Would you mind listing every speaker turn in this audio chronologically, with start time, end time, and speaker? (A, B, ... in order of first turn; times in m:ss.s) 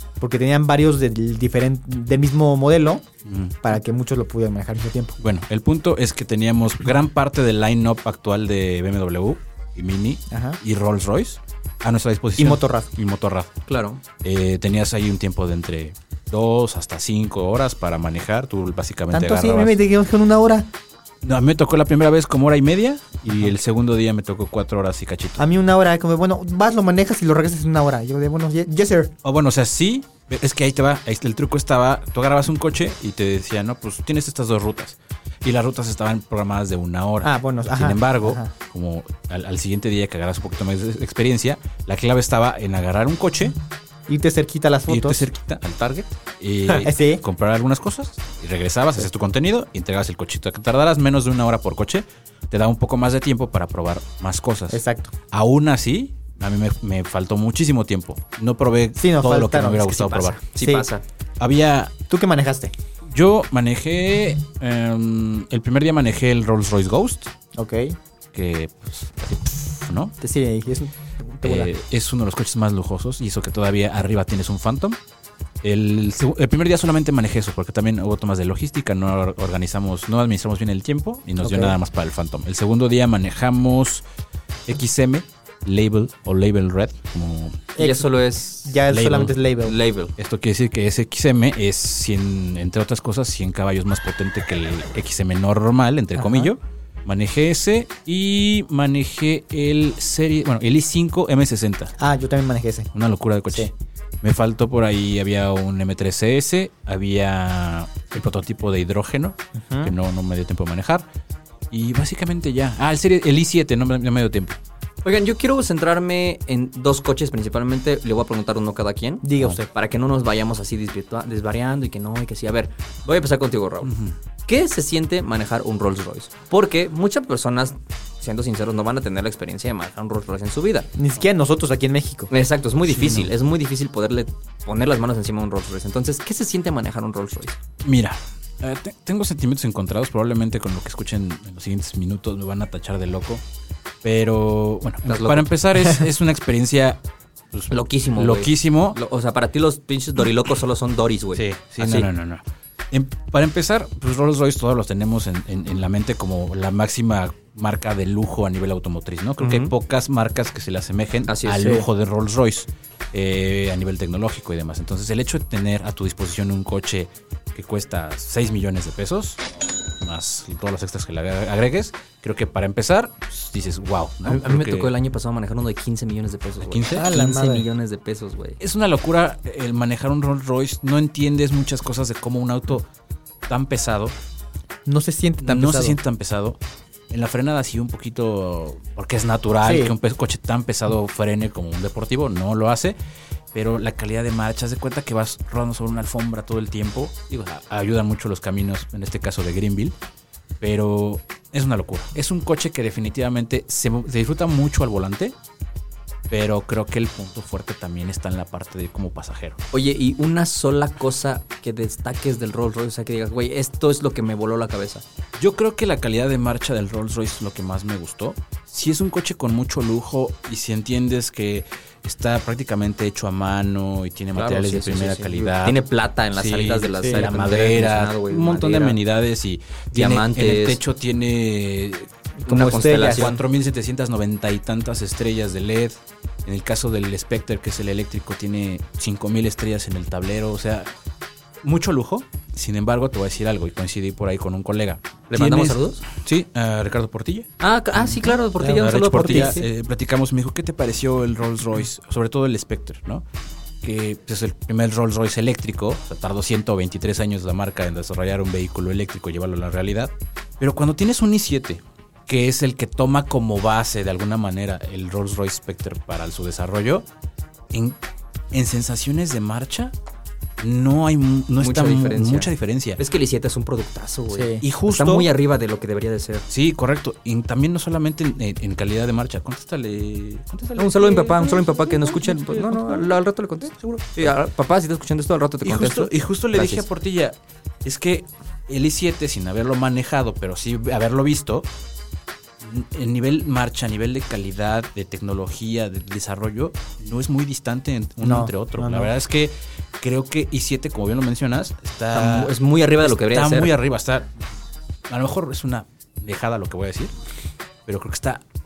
0:00.2-0:03.0 A
0:03.2-0:03.6 B
0:03.6-0:05.2 A
0:05.2-0:13.5 B
0:10.3-0:10.6 A
0:12.4-0:12.9 A
0:13.7-0:14.0 C
0:14.2-0:19.8 B
0:19.1-0:20.7 A
0:21.2-0:25.4 B
0:25.4-0:29.1 A
0:29.2-0:43.6 B
0:37.2-0:38.5 A
0:44.1-0:45.3 A
0:44.9-1:00.4 B
0:46.7-0:47.2 A
0:54.7-0:55.1 A
0:59.0-1:00.9 A
1:00.3-1:01.0 C
1:01.4-1:02.0 B
1:02.1-1:02.7 A
1:03.1-1:07.3 B
1:07.6-1:08.0 A
1:08.3-1:10.1 B
1:10.2-1:11.7 A
1:11.4-1:15.0 B
1:15.6-1:24.0 B
1:21.4-1:21.8 A
1:24.7-1:27.7 B
1:27.8-1:28.1 A
1:27.8-1:28.8 C
1:28.6-1:29.8 A
1:28.9-1:29.4 B
1:29.6-1:30.1 C
1:30.2-1:42.0 B
1:36.2-1:36.5 A
1:42.0-1:42.9 A
1:42.9-1:51.1 B
1:49.6-1:50.0 A
1:51.7-1:54.6 B
1:55.0-2:03.9 C
1:59.2-1:59.7 A
2:03.8-2:04.2 B
2:04.5-2:10.9 C
2:11.0-2:12.3 A
2:12.3-2:17.6 C
2:12.9-2:13.3 B
2:17.8-2:23.4 B
2:24.0-2:27.0 B
2:25.1-2:25.5 C
2:27.5-2:29.0 B
2:27.7-2:32.1 C
2:31.4-2:49.4 B
2:39.4-2:39.7 C
2:41.3-2:41.8 C
2:50.0-2:54.9 B
2:54.2-2:58.6 C
2:56.6-2:57.1 B
2:57.0-2:57.7 A
2:58.6-3:02.9 B
3:03.5-3:04.1 B
3:04.9-3:06.0 A
3:05.4-3:06.6 B
3:07.1-3:13.0 B
3:09.6-3:10.0 A
3:13.5-3:20.0 B
3:20.6-3:25.3 B
3:26.3-3:29.6 B
3:29.7-3:35.0 C
3:35.4-3:45.8 B
3:44.4-3:49.0 C
3:46.3-3:52.1 B
3:49.9-3:50.8 C
3:52.4-3:53.4 A
3:52.5-3:53.4 C
3:52.7-4:00.9 B
4:01.6-4:13.2 B
4:05.3-4:06.0 C
4:07.6-4:09.6 C
4:08.6-4:09.6 A
4:13.8-4:27.1 B
4:27.7-4:28.0 B
4:28.5-4:29.9 B
4:30.6-4:33.0 B
4:31.6-4:36.4 C
4:34.3-4:34.6 A
4:34.6-4:35.3 B
4:36.5-4:43.2 B
4:40.8-4:46.8 C
4:43.8-4:44.3 B
4:45.6-4:51.7 B
4:52.6-5:04.4 B
4:58.2-4:59.1 A
5:02.1-5:03.7 C
5:05.1-5:07.1 B
5:07.9-5:08.4 B